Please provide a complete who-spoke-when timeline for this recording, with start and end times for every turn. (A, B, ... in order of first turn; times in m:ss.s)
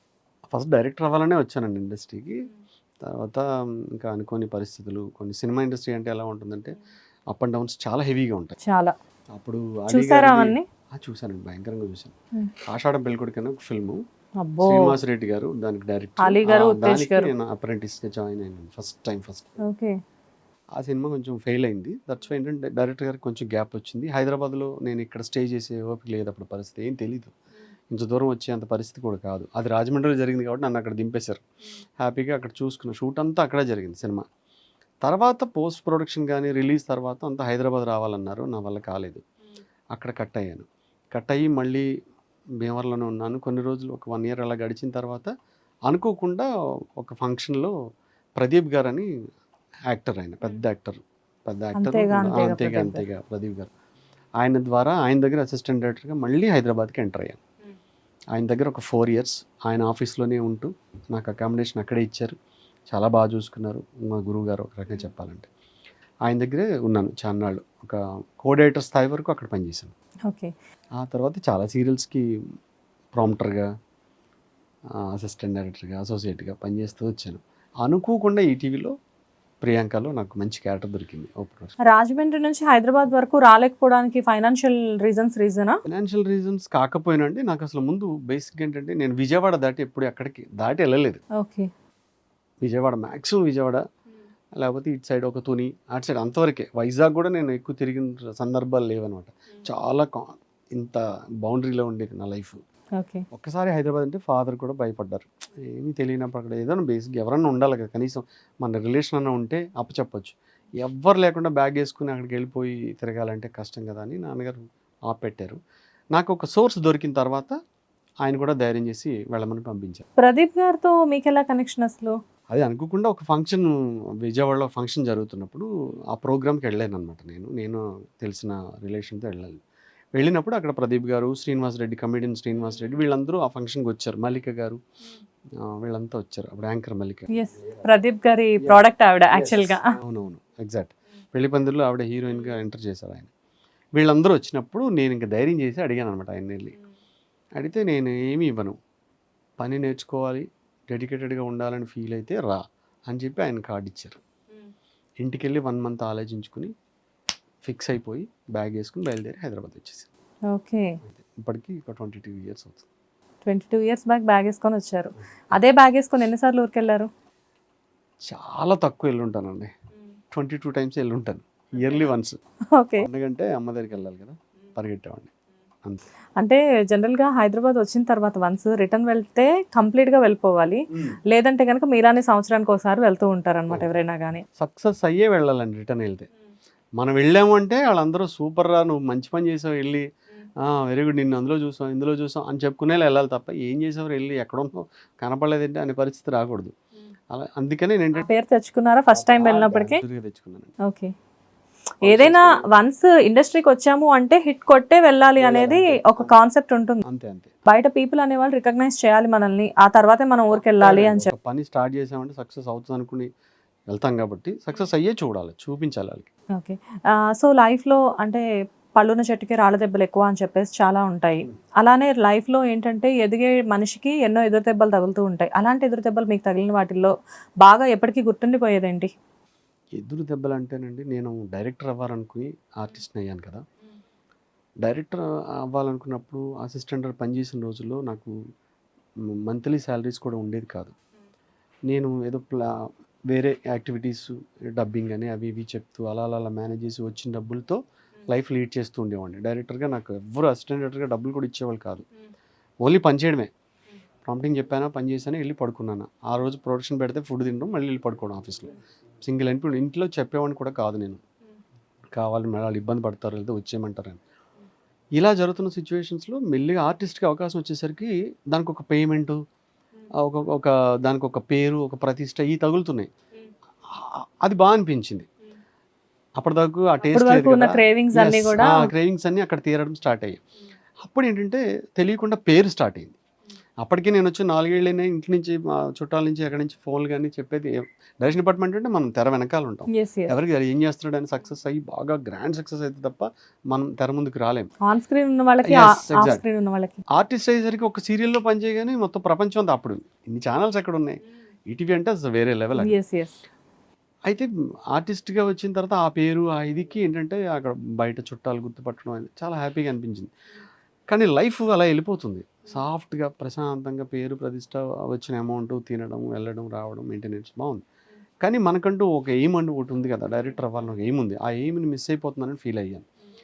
0:00.5-0:02.5 A
0:03.0-0:06.8 A
0:07.3-0:08.6 A
0:08.6-0:08.9 B
0:09.3-0:12.1 A
0:09.9-0:10.6 B
0:12.7-0:14.0 A
0:14.4-0:14.9 B
0:14.6-0:19.6 A
0:16.2-0:17.3 B
0:19.6-0:20.0 B
0:20.8-0:27.3 A
0:27.9-0:31.4 A
0:32.0-0:34.2 A
0:35.0-0:39.2 A
0:39.9-0:41.9 A
0:42.6-0:45.3 A
0:45.9-0:46.5 A
0:47.0-0:47.7 A
0:48.4-0:49.1 A
0:49.9-0:53.7 A
0:51.7-0:53.0 B
0:54.4-0:57.4 A
0:58.3-1:02.4 A
1:02.9-1:05.5 A
1:06.2-1:09.9 A
1:11.0-1:12.2 A
1:13.1-1:13.7 A
1:15.0-1:18.9 A
1:19.6-1:21.7 A
1:21.8-1:25.8 B
1:25.9-1:31.2 A
1:31.4-1:31.7 B
1:32.6-1:33.8 A
1:34.6-1:42.6 A
1:43.0-1:43.2 B
1:43.3-1:55.6 A
1:56.1-1:57.6 A
1:58.2-2:00.0 A
2:00.2-2:02.2 B
2:02.5-2:09.6 A
2:10.2-2:14.8 A
2:15.6-2:17.8 A
2:17.3-2:19.9 B
2:18.6-2:23.3 A
2:24.0-2:26.8 A
2:27.6-2:28.8 A
2:29.6-2:34.2 A
2:35.2-2:36.7 A
2:37.6-2:40.1 A
2:40.5-2:41.0 B
2:41.1-2:42.9 A
2:43.4-2:47.1 B
2:48.3-2:49.7 A
2:50.3-2:52.4 A
2:52.7-2:53.0 B
2:53.0-2:55.3 A
2:56.4-3:04.4 B
3:00.9-3:01.2 A
3:04.6-3:06.3 A
3:07.0-3:10.1 A
3:10.6-3:16.7 A
3:17.3-3:18.2 A
3:18.2-3:20.0 B
3:19.1-3:20.7 A
3:20.8-3:21.1 B
3:22.0-3:27.0 B
3:22.0-3:22.6 A
3:25.4-3:26.4 A
3:27.0-3:27.5 A
3:27.7-3:31.3 B
3:30.5-3:33.3 A
3:33.9-3:36.3 A
3:36.5-3:38.4 B
3:39.0-3:49.1 B
3:50.0-3:53.6 A
3:54.8-3:58.3 A
3:59.5-4:00.9 A
4:01.9-4:12.0 A
4:12.8-4:13.5 A
4:14.2-4:21.2 A
4:22.1-4:24.2 A
4:25.2-4:29.4 A
4:30.2-4:33.1 A
4:33.9-4:35.3 A
4:36.4-4:40.4 A
4:37.1-4:38.9 B
4:41.0-4:43.2 A
4:43.8-4:54.7 A
4:49.9-4:50.3 B
4:54.8-4:57.0 B
4:55.6-4:56.4 A
4:57.1-5:03.0 A
5:02.8-5:03.4 B
5:04.3-5:10.3 A
5:11.1-5:17.8 A
5:18.4-5:23.0 A